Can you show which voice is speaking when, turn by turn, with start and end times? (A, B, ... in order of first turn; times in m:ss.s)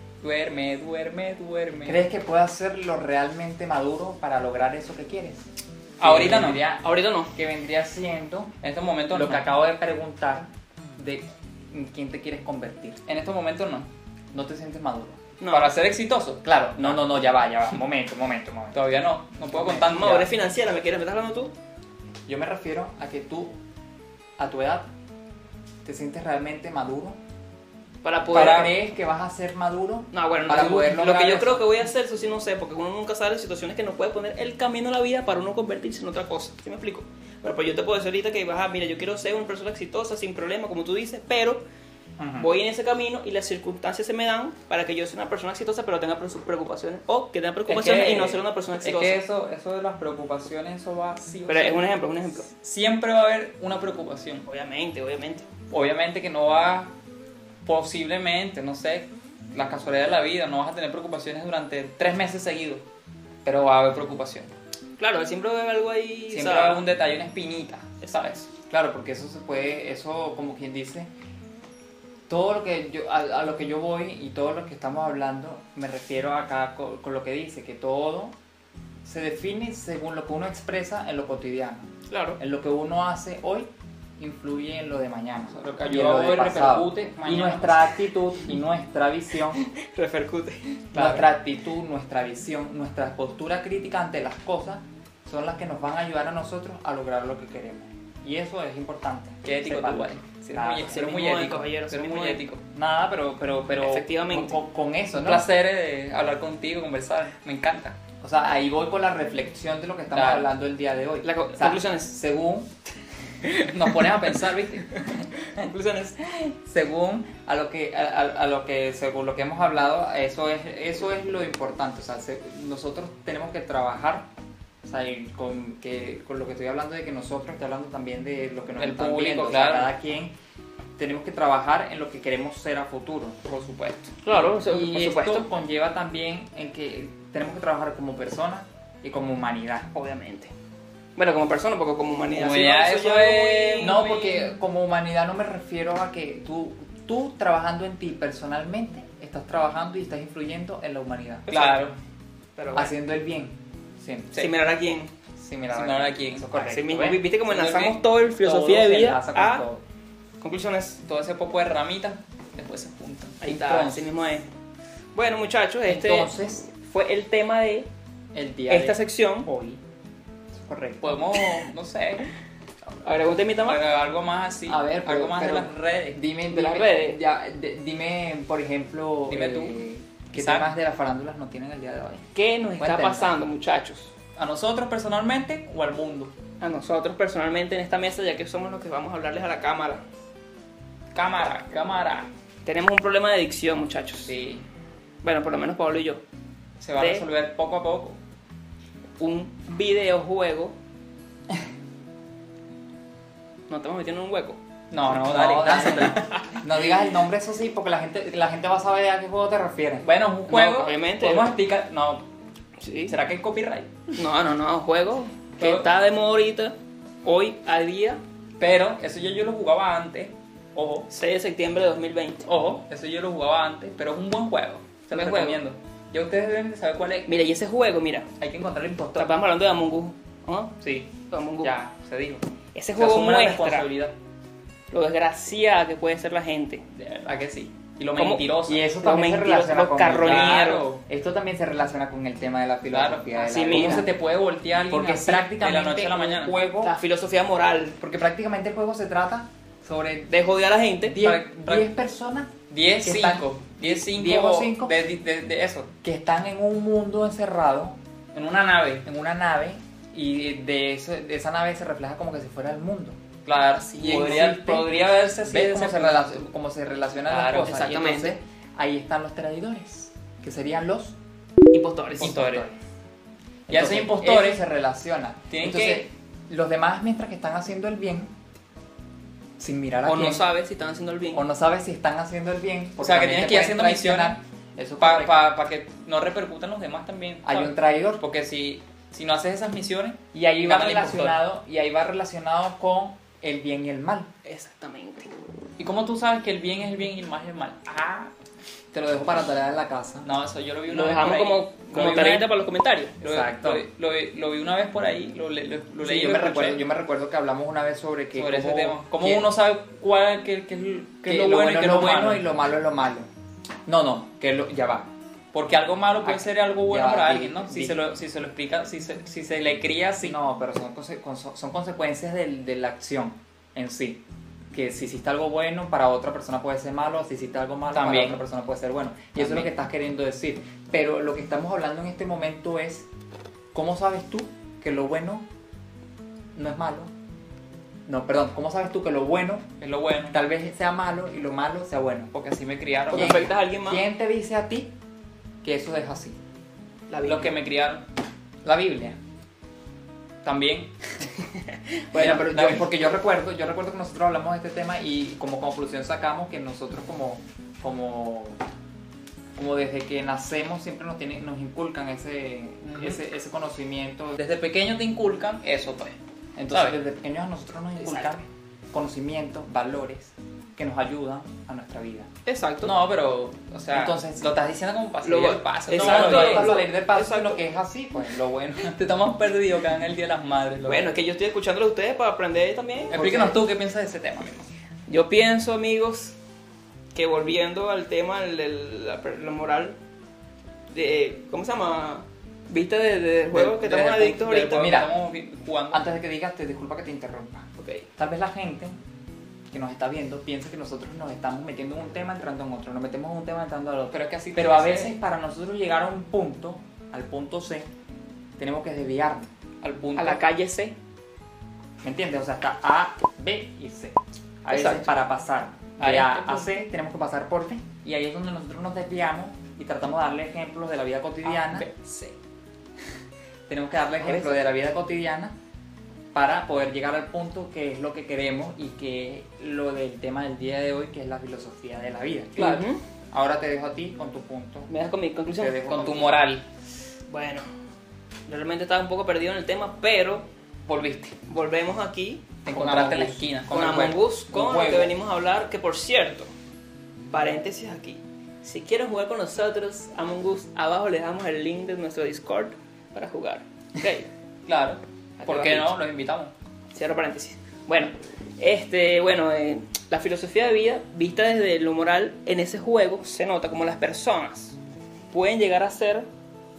0:00.2-0:02.0 A
0:01.8-0:05.4 B
0:06.0-0:06.6 A
0:06.0-0:08.5 B
0:06.7-0:07.3 C
0:08.6-0:09.5 A
0:09.1-0:13.0 B
0:13.0-0:13.9 A
0:14.3-0:15.2 B
0:15.4-0:15.7 C
0:15.5-0:17.0 A
0:16.4-0:18.8 B
0:18.7-0:20.3 A
0:19.7-0:21.5 C
0:22.3-0:23.5 B
0:24.4-0:24.9 B
0:25.8-0:27.2 B
0:28.0-0:28.7 C
0:28.3-0:31.6 B
0:28.4-0:28.6 A
0:30.1-0:41.6 C
0:42.2-0:42.5 B
0:42.4-0:49.2 C
0:47.7-0:51.9 A
0:51.5-0:52.5 C
0:52.5-0:54.5 A
0:54.5-0:55.4 C
0:55.7-0:56.9 A
0:57.6-1:02.8 A
1:03.4-1:04.5 A
1:05.0-1:06.9 C
1:06.3-1:08.5 A
1:08.7-1:11.1 B
1:12.3-1:18.3 B
1:19.0-1:21.9 B
1:22.1-1:22.4 C
1:22.4-1:29.6 B
1:25.5-1:27.9 A
1:29.6-1:30.8 C
1:30.9-1:31.3 A
1:30.9-1:41.0 B
1:39.4-1:42.6 A
1:40.8-1:42.4 C
1:42.7-1:45.4 B
1:43.8-1:44.6 C
1:45.1-1:48.0 A
1:48.2-1:52.7 B
1:50.1-1:50.5 A
1:51.2-1:52.1 C
1:53.4-1:54.4 C
1:53.7-1:54.9 A
1:55.0-1:56.2 C
1:56.2-2:04.3 B
2:04.8-2:10.3 B
2:08.8-2:09.9 A
2:11.0-2:13.5 B
2:13.5-2:14.3 A
2:14.2-2:15.5 C
2:14.3-2:19.9 B
2:19.9-2:20.5 C
2:21.2-2:24.0 C
2:22.3-2:24.5 A
2:23.8-2:31.5 B
2:31.5-2:31.8 C
2:31.5-2:32.0 A
2:32.6-2:32.9 C
2:32.7-2:34.3 B
2:34.3-2:35.1 C
2:35.4-2:37.2 B
2:35.7-2:36.5 A
2:36.6-2:39.6 C
2:37.5-2:38.0 A
2:38.4-2:39.8 B
2:40.4-2:41.0 C
2:41.0-2:44.1 A
2:43.4-2:44.4 C
2:45.1-2:47.9 C
2:45.9-2:46.7 B
2:48.3-2:49.8 B
2:48.7-2:49.5 C
2:50.5-2:51.1 B
2:51.0-2:52.2 A
2:53.0-2:53.8 C
2:53.6-2:56.2 A
2:54.7-3:02.2 B
2:56.5-2:57.2 C
2:59.3-2:59.8 A
3:00.3-3:00.7 A
3:02.3-3:04.1 C
3:02.8-3:03.4 B
3:04.4-3:06.3 A
3:06.6-3:10.0 C
3:11.1-3:12.3 A
3:12.6-3:14.3 C
3:14.2-3:14.6 A
3:15.2-3:16.2 C
3:16.8-3:18.2 A
3:17.0-3:17.2 C
3:19.2-3:20.7 C
3:23.7-3:24.6 C
3:24.9-3:26.3 A
3:25.1-3:30.0 B
3:25.7-3:26.5 C
3:30.0-3:32.2 A
3:30.5-3:31.6 C
3:32.8-3:33.1 C
3:33.1-3:34.2 A
3:34.2-3:36.7 C
3:35.6-3:35.9 A
3:37.2-3:38.2 C
3:38.6-3:41.1 A
3:41.1-3:42.5 C
3:42.5-3:47.3 A
3:45.1-3:45.6 C
3:47.3-3:48.3 C
3:48.4-3:49.3 A
3:49.1-3:51.8 C
3:50.8-3:54.2 A
3:52.7-3:53.9 C
3:54.9-3:56.8 C
3:56.9-3:58.8 A
3:58.2-4:00.8 C
3:58.7-4:04.1 B
4:00.2-4:01.0 A
4:02.9-4:06.6 A
4:03.4-4:04.0 C
4:04.9-4:06.9 B
4:06.8-4:08.0 C
4:08.0-4:10.3 B
4:10.3-4:11.2 C
4:11.0-4:15.0 B
4:11.2-4:11.9 A
4:12.7-4:15.9 A
4:16.0-4:18.0 B
4:18.3-4:19.0 A
4:19.0-4:23.2 B
4:23.4-4:26.4 A
4:23.9-4:31.1 B
4:27.3-4:27.8 A
4:27.6-4:28.4 C
4:31.7-4:32.3 C
4:32.2-4:32.7 A
4:32.2-4:32.8 B
4:33.7-4:38.3 B
4:33.7-4:34.6 A
4:35.5-4:36.0 A
4:39.6-4:40.4 B
4:40.0-4:41.4 C
4:41.3-4:45.4 B
4:43.0-4:44.4 A
4:45.0-4:51.4 A
4:47.4-4:48.2 B
4:50.3-4:54.3 B
4:54.4-4:55.3 C
4:55.8-4:58.3 A
4:58.9-5:00.3 B
5:00.2-5:02.5 A
5:00.9-5:03.2 C
5:03.2-5:06.8 A
5:03.2-5:03.8 B
5:06.0-5:09.5 B
5:08.3-5:12.4 A
5:11.2-5:13.3 B
5:13.8-5:15.1 B
5:15.5-5:20.4 A
5:16.2-5:18.0 B
5:20.2-5:24.2 B
5:24.7-5:33.1 B
5:27.9-5:28.4 A
5:29.4-5:29.7 A
5:33.7-5:35.4 B
5:36.5-5:37.1 B
5:38.1-5:39.7 B
5:39.8-5:40.4 A
5:40.3-5:42.3 B
5:42.3-5:43.4 A
5:43.1-5:44.0 C
5:43.1-5:44.9 B
5:45.6-5:46.4 B
5:47.1-5:47.5 C
5:47.2-5:48.0 A
5:48.6-5:49.2 B
5:50.4-5:50.9 A
5:51.5-5:52.5 C
5:52.1-5:58.6 B
5:52.2-5:52.9 A
5:59.6-6:04.4 B
6:02.9-6:03.2 A
6:04.4-6:06.2 A
6:06.6-6:12.3 B
6:06.7-6:07.0 A
6:08.0-6:08.3 C
6:12.4-6:12.9 C
6:12.8-6:16.8 A
6:13.9-6:14.5 B
6:15.2-6:17.6 C
6:15.9-6:18.9 B
6:18.7-6:21.1 A
6:20.8-6:23.5 C
6:23.1-6:24.7 A
6:23.1-6:23.5 B
6:25.1-6:26.3 C
6:27.1-6:30.0 C
6:30.9-6:35.0 C
6:33.5-6:36.0 A
6:34.7-6:35.2 B
6:35.9-6:38.9 B
6:37.8-6:38.0 C
6:39.7-6:47.9 B
6:44.1-6:45.2 A
6:48.6-6:49.5 B
6:49.8-6:50.4 A
6:50.2-6:50.9 C
6:52.0-7:01.9 B
6:54.7-6:55.1 C
6:56.0-6:56.7 A
7:01.5-7:02.3 A
7:03.7-7:05.5 B
7:04.2-7:04.5 A
7:06.3-7:12.8 B
7:12.6-7:12.8 A
7:12.6-7:13.0 C
7:13.3-7:14.9 B
7:14.9-7:15.8 C
7:15.5-7:16.4 B
7:15.8-7:16.6 A
7:17.3-7:17.6 C
7:18.5-7:20.4 C
7:20.9-7:21.3 A
7:21.5-7:26.5 C
7:22.7-7:25.1 A
7:22.7-7:23.3 B
7:27.3-7:34.3 C
7:34.6-7:36.5 A
7:35.4-7:35.9 C
7:36.9-7:44.8 C
7:45.3-7:46.3 C